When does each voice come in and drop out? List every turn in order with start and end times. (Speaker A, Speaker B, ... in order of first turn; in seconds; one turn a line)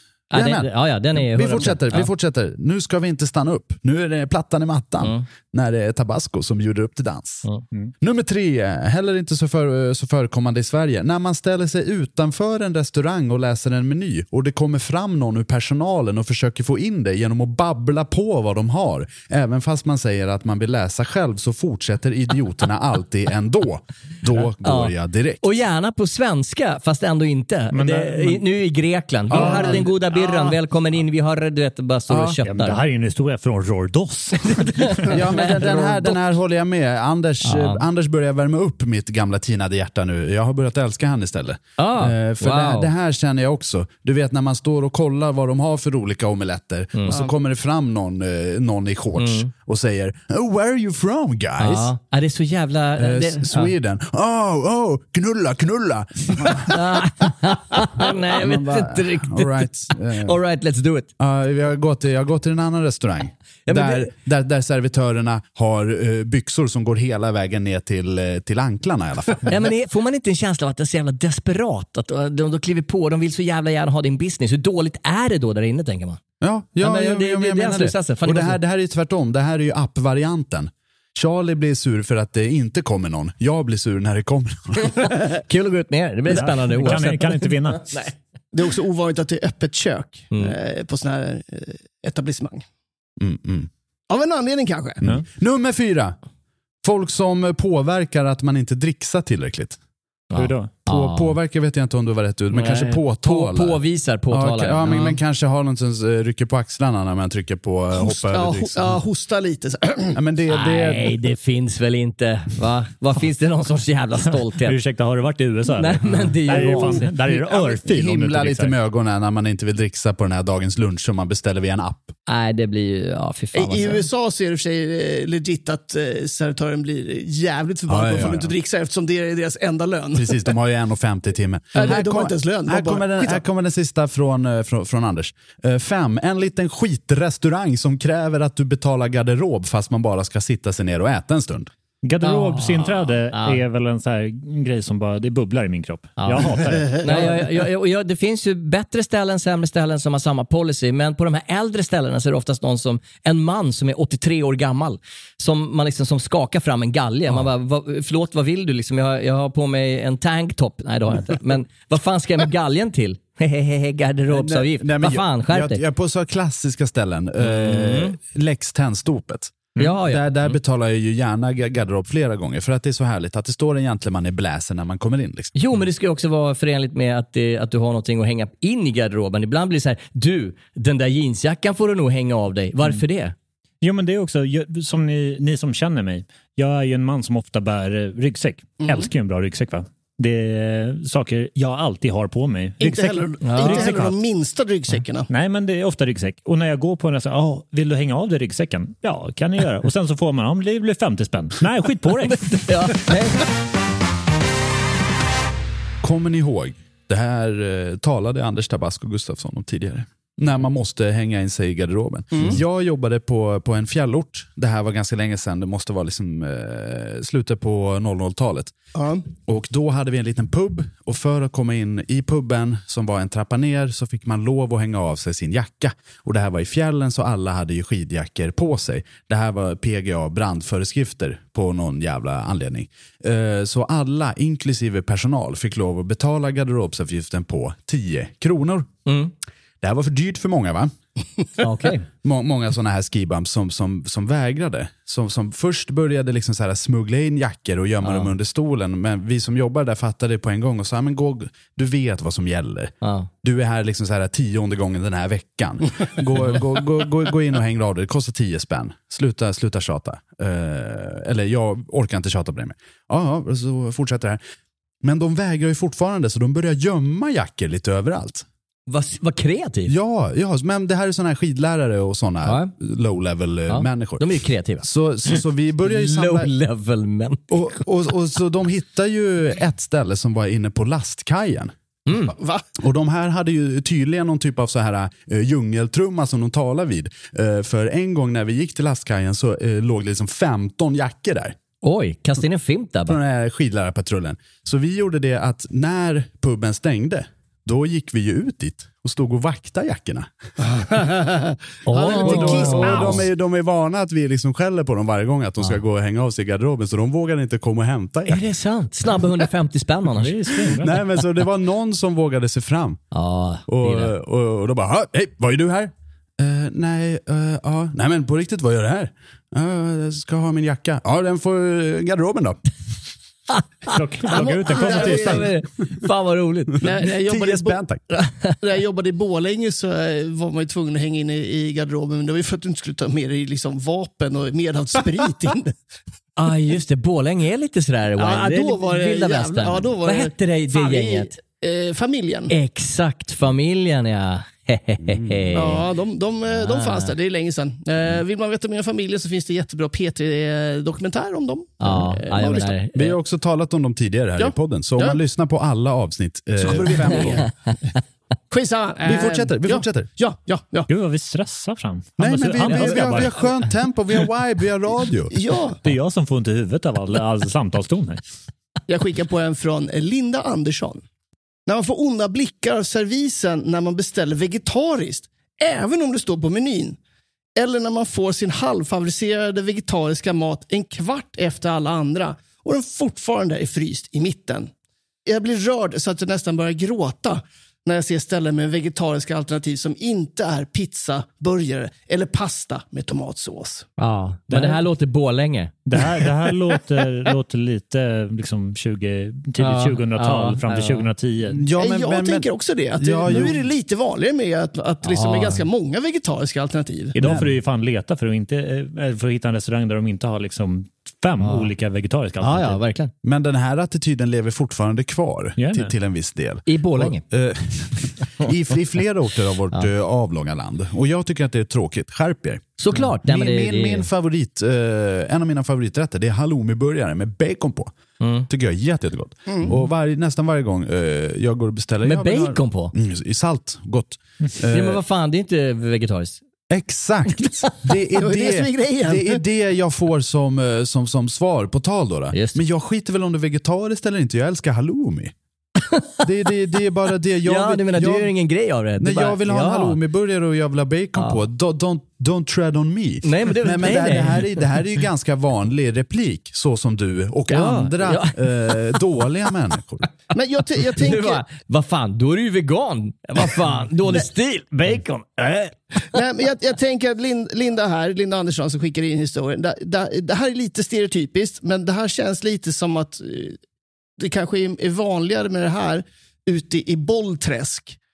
Speaker A: 0.3-2.1
Speaker B: 0.3-7.5
Speaker A: 5.0-5.3
Speaker B: 8.0-25.4
Speaker A: 24.6-32.8
Speaker C: 27.7-28.4
Speaker C: 29.3-29.9
Speaker B: 29.3-29.9
Speaker B: 32.1-32.4
Speaker C: 32.5-35.2
Speaker A: 34.5-36.2
Speaker B: 35.1-51.9
Speaker A: 37.4-37.9
Speaker A: 41.8-42.9
Speaker A: 46.9-47.2
Speaker A: 49.2-49.5
Speaker A: 51.6-53.7
Speaker B: 53.0-60.4
Speaker A: 56.7-61.1
Speaker B: 61.2-69.5
Speaker A: 63.7-64.1
Speaker A: 69.5-76.2
Speaker B: 76.4-85.1
Speaker A: 76.8-78.6
Speaker A: 85.4-88.1
Speaker C: 86.3-87.9
Speaker D: 88.5-92.7
Speaker B: 93.2-93.7
Speaker D: 94.1-95.0
Speaker B: 95.0-96.2
Speaker B: 96.8-99.8
Speaker A: 100.3-101.3
Speaker C: 100.4-100.7
Speaker B: 100.9-109.0
Speaker A: 102.5-105.2
Speaker D: 107.9-110.2
Speaker B: 110.1-111.2
Speaker A: 110.5-114.8
Speaker C: 114.6-118.8
Speaker A: 115.7-117.1
Speaker B: 116.5-122.1
Speaker A: 122.3-124.0
Speaker D: 123.5-130.5
Speaker B: 127.9-128.5
Speaker B: 130.1-141.7
Speaker D: 131.8-133.4
Speaker C: 142.0-147.4
Speaker A: 142.2-143.6
Speaker A: 146.2-165.8
Speaker B: 164.3-175.6
Speaker A: 167.4-168.2
Speaker A: 169.8-170.6
Speaker A: 175.6-183.3
Speaker C: 183.8-194.2
Speaker D: 188.8-189.1
Speaker D: 192.8-195.3
Speaker A: 193.4-194.0
Speaker C: 195.3-202.6
Speaker A: 202.3-203.4
Speaker B: 206.0-218.7
Speaker D: 218.9-219.2
Speaker B: 219.4-238.9
Speaker A: 239.1-239.3
Speaker B: 239.8-240.9
Speaker A: 241.6-242.1
Speaker B: 242.2-264.4
Speaker A: 248.0-248.3
Speaker A: 253.0-253.3
Speaker B: 265.0-268.5
Speaker A: 268.9-269.9
Speaker B: 269.9-274.3
Speaker A: 272.4-272.7
Speaker A: 273.7-277.4
Speaker B: 274.8-276.5
Speaker B: 277.5-281.7
Speaker A: 282.1-282.4
Speaker D: 282.3-282.7
Speaker B: 282.8-291.6
Speaker A: 291.8-293.2
Speaker B: 293.1-300.3
Speaker D: 300.7-303.2
Speaker A: 301.9-303.3
Speaker B: 302.2-308.4
Speaker A: 308.3-310.8
Speaker C: 310.2-311.0
Speaker B: 310.7-313.0
Speaker A: 313.1-314.1
Speaker B: 313.7-322.6
Speaker A: 323.5-326.9
Speaker C: 323.9-325.5
Speaker D: 324.3-325.5
Speaker D: 326.8-327.8
Speaker B: 326.9-328.0
Speaker A: 328.2-328.6
Speaker D: 328.6-335.8
Speaker A: 336.4-341.4
Speaker D: 338.2-342.5
Speaker A: 342.5-345.9
Speaker B: 345.0-345.5
Speaker D: 345.5-352.8
Speaker A: 346.5-347.1
Speaker A: 351.8-353.2
Speaker B: 352.9-357.5
Speaker D: 354.4-355.2
Speaker D: 356.6-357.5
Speaker D: 358.5-360.9
Speaker B: 359.1-360.1
Speaker C: 360.9-363.3
Speaker B: 362.2-365.4
Speaker A: 362.7-363.1
Speaker D: 365.3-365.8
Speaker C: 365.8-368.2
Speaker D: 368.9-371.0
Speaker D: 371.7-377.0
Speaker D: 377.6-384.7
Speaker D: 385.3-393.9
Speaker A: 394.0-395.7
Speaker C: 394.5-394.8
Speaker C: 395.9-401.6
Speaker A: 399.6-401.1
Speaker B: 401.5-403.7
Speaker D: 401.8-407.2
Speaker A: 405.0-405.6
Speaker C: 407.1-412.8
Speaker B: 407.2-407.5
Speaker A: 411.4-411.7
Speaker A: 412.4-413.1
Speaker B: 413.2-427.9
Speaker C: 415.6-415.9
Speaker A: 416.7-417.2
Speaker A: 422.8-424.1
Speaker A: 428.2-428.5
Speaker B: 428.5-435.0
Speaker D: 429.5-429.7
Speaker A: 432.1-432.9
Speaker A: 434.6-436.4
Speaker B: 436.7-445.3
Speaker D: 438.2-439.4
Speaker A: 442.3-442.6
Speaker A: 445.8-446.3
Speaker B: 446.2-448.3
Speaker A: 447.4-450.0
Speaker B: 449.0-460.1
Speaker A: 451.2-451.4
Speaker A: 453.2-454.6
Speaker A: 457.5-459.0
Speaker D: 460.3-461.4
Speaker A: 460.9-466.2
Speaker D: 466.1-473.6
Speaker D: 474.2-478.0